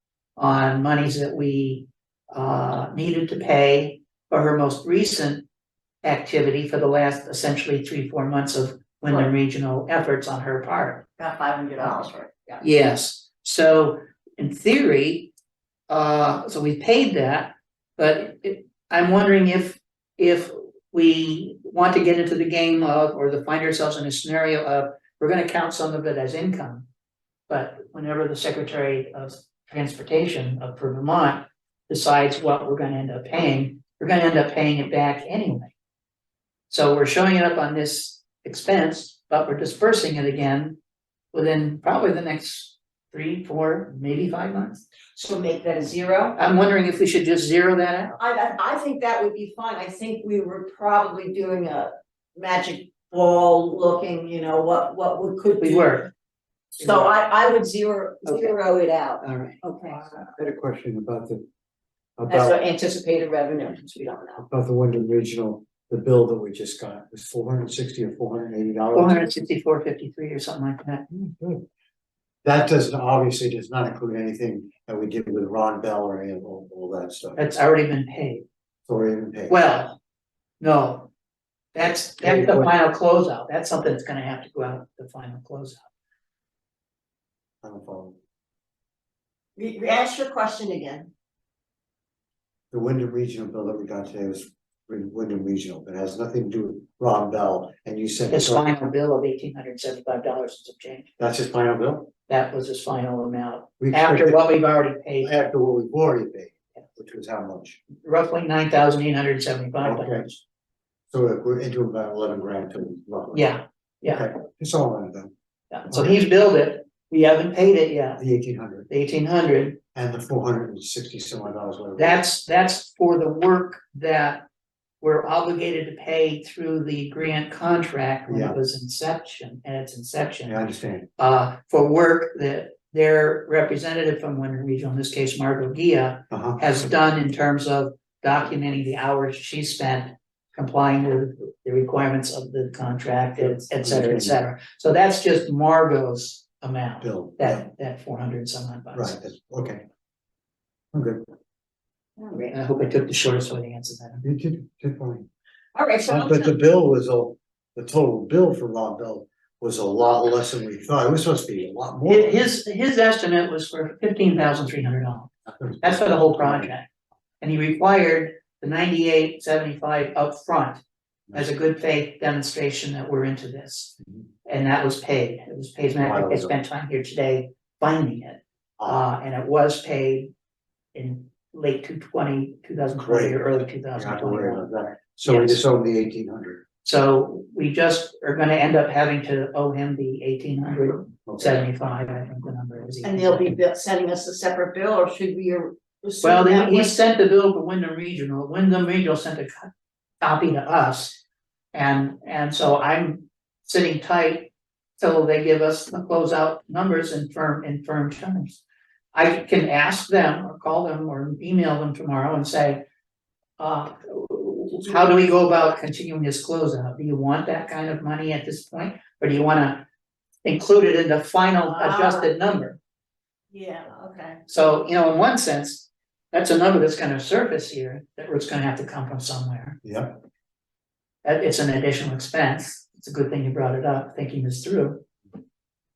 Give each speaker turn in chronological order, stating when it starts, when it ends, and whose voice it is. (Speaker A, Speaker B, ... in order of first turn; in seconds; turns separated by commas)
Speaker A: 0.4-5.4, Speaker A: 6.0-11.1, Speaker B: 11.2-12.6, Speaker A: 12.6-15.3, Speaker A: 15.9-26.9, Speaker A: 27.5-35.7, Speaker A: 36.7-40.8, Speaker A: 41.3-44.8, Speaker B: 45.1-46.4, Speaker A: 46.4-48.2, Speaker B: 48.2-56.0, Speaker A: 55.6-56.1, Speaker A: 56.8-57.1, Speaker B: 56.8-60.1, Speaker A: 58.2-58.5, Speaker A: 59.2-59.6, Speaker C: 59.9-61.4, Speaker C: 62.2-62.5, Speaker B: 62.3-64.4, Speaker C: 64.4-69.2, Speaker A: 68.9-71.0, Speaker C: 71.1-71.7, Speaker C: 72.4-77.4, Speaker A: 77.4-78.5, Speaker C: 78.9-79.6, Speaker A: 79.5-80.0, Speaker A: 80.6-81.1, Speaker A: 81.7-85.8, Speaker C: 82.2-82.7, Speaker C: 87.6-88.2, Speaker B: 89.6-91.1, Speaker C: 92.7-98.7, Speaker A: 98.3-101.1, Speaker C: 101.2-102.1, Speaker A: 102.3-105.3, Speaker C: 103.8-104.4, Speaker C: 105.2-107.8, Speaker A: 108.0-110.4, Speaker C: 109.8-110.3, Speaker C: 111.1-113.5, Speaker A: 113.3-114.3, Speaker C: 114.0-115.3, Speaker A: 115.7-118.2, Speaker C: 115.9-116.3, Speaker C: 118.2-118.9, Speaker A: 118.9-119.8, Speaker C: 119.9-122.2, Speaker A: 122.0-124.5, Speaker A: 125.0-130.6, Speaker C: 128.3-128.6, Speaker C: 130.5-131.1, Speaker A: 131.2-149.2, Speaker C: 136.3-136.6, Speaker C: 143.4-144.4, Speaker C: 147.0-147.6, Speaker C: 148.9-149.8, Speaker C: 150.9-151.3, Speaker B: 152.2-152.5, Speaker A: 152.5-154.2, Speaker C: 154.2-155.3, Speaker B: 155.7-156.5, Speaker C: 156.1-162.4, Speaker A: 162.1-166.8, Speaker C: 165.5-166.7, Speaker A: 167.4-170.8, Speaker A: 171.3-180.3, Speaker C: 176.0-176.5, Speaker C: 178.8-179.0, Speaker A: 180.9-184.7, Speaker C: 183.0-186.6, Speaker A: 185.2-185.6, Speaker A: 186.8-193.6, Speaker C: 191.3-191.6, Speaker B: 193.0-196.9, Speaker A: 196.2-199.7, Speaker A: 200.2-201.2, Speaker A: 201.7-208.6, Speaker A: 209.1-212.8, Speaker A: 213.6-219.8, Speaker A: 220.4-222.8, Speaker B: 221.6-222.3, Speaker B: 223.5-224.4, Speaker A: 224.5-229.8, Speaker C: 229.8-230.2, Speaker A: 231.2-235.0